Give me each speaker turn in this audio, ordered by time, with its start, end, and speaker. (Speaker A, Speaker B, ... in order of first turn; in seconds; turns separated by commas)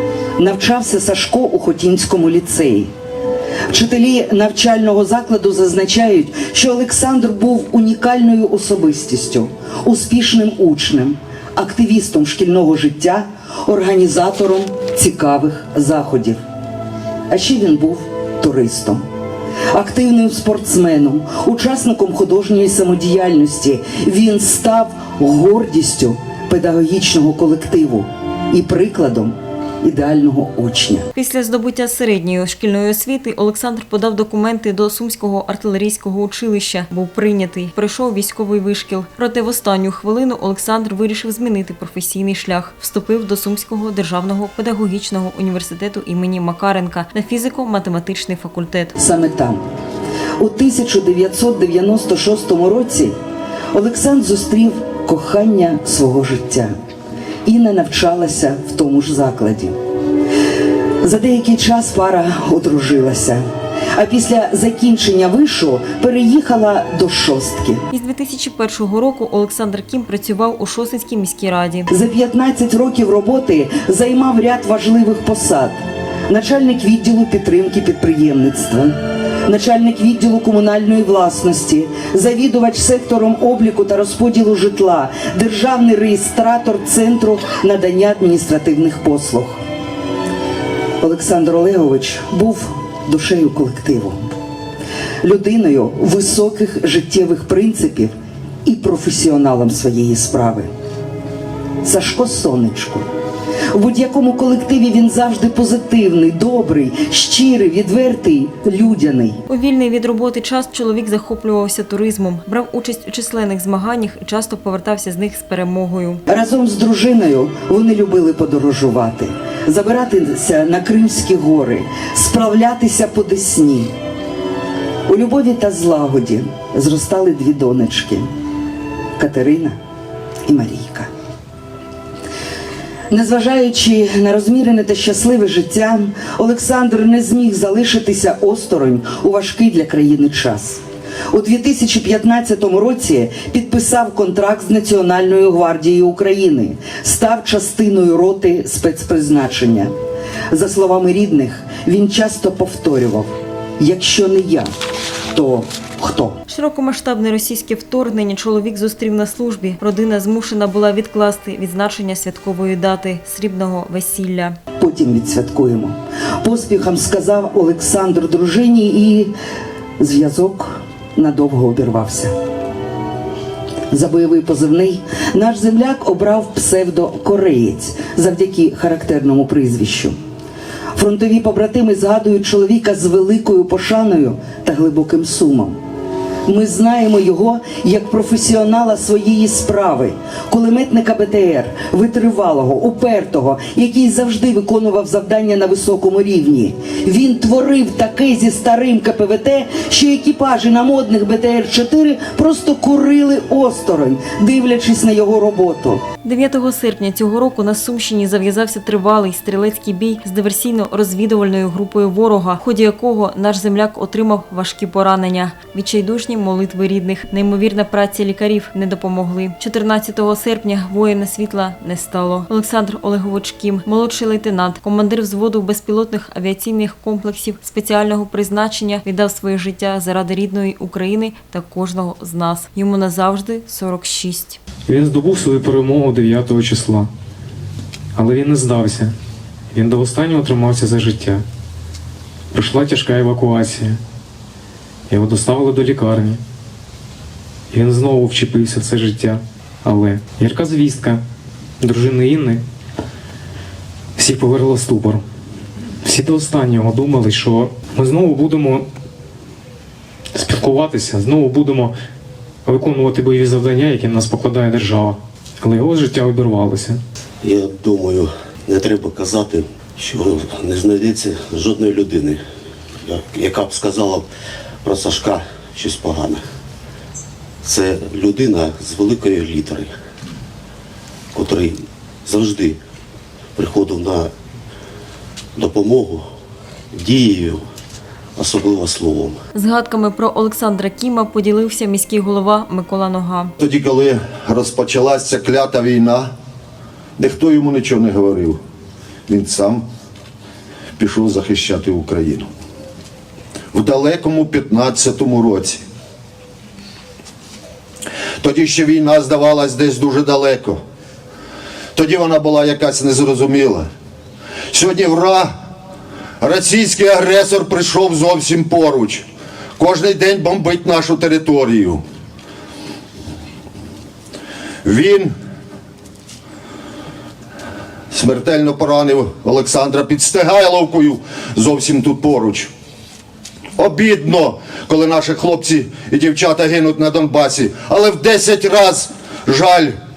Speaker A: 0.4-2.9, Speaker A: 3.7-16.4, Speaker A: 17.3-19.0, Speaker A: 19.7-31.1, Speaker B: 31.1-48.9, Speaker A: 49.0-49.6, Speaker A: 50.4-53.1, Speaker A: 53.7-56.7, Speaker A: 57.5-59.8, Speaker A: 61.0-63.4, Speaker A: 63.9-67.8, Speaker B: 67.9-71.9, Speaker A: 71.9-75.8, Speaker A: 76.3-89.6, Speaker A: 91.0-94.2, Speaker A: 95.2-98.1, Speaker A: 98.6-100.7, Speaker A: 101.8-103.1, Speaker A: 103.7-109.4, Speaker B: 109.5-116.2, Speaker A: 116.3-123.9, Speaker A: 125.1-128.3, Speaker A: 129.2-129.8, Speaker A: 130.4-131.1, Speaker A: 133.1-149.9, Speaker A: 150.5-154.7, Speaker A: 155.3-156.4, Speaker B: 156.5-164.6, Speaker A: 164.8-169.3, Speaker A: 170.0-172.3, Speaker A: 173.9-180.2, Speaker A: 180.9-185.8, Speaker A: 186.4-206.0, Speaker B: 206.2-234.6, Speaker C: 234.9-237.1, Speaker C: 238.1-239.1, Speaker C: 239.7-241.4, Speaker C: 242.5-244.0, Speaker C: 245.1-246.4, Speaker C: 247.7-251.2, Speaker C: 251.8-252.6, Speaker C: 254.2-255.2, Speaker C: 256.0-258.9, Speaker C: 260.3-261.9, Speaker C: 262.6-267.0, Speaker D: 267.4-272.4, Speaker D: 273.0-274.2, Speaker D: 274.8-276.4, Speaker D: 277.6-279.9, Speaker D: 281.3-282.8, Speaker D: 283.6-284.3, Speaker D: 285.6-286.2, Speaker D: 286.9-287.6, Speaker D: 288.4-289.4, Speaker B: 289.5-293.5, Speaker E: 293.6-296.3, Speaker E: 297.2-298.6, Speaker E: 299.3-299.8, Speaker E: 301.0-302.5, Speaker E: 303.7-305.8, Speaker E: 308.4-310.8, Speaker E: 311.9-313.9, Speaker E: 314.7-315.5, Speaker E: 316.4-319.2, Speaker E: 319.8-322.0, Speaker E: 324.8-325.3, Speaker E: 328.1-332.7, Speaker E: 333.8-339.9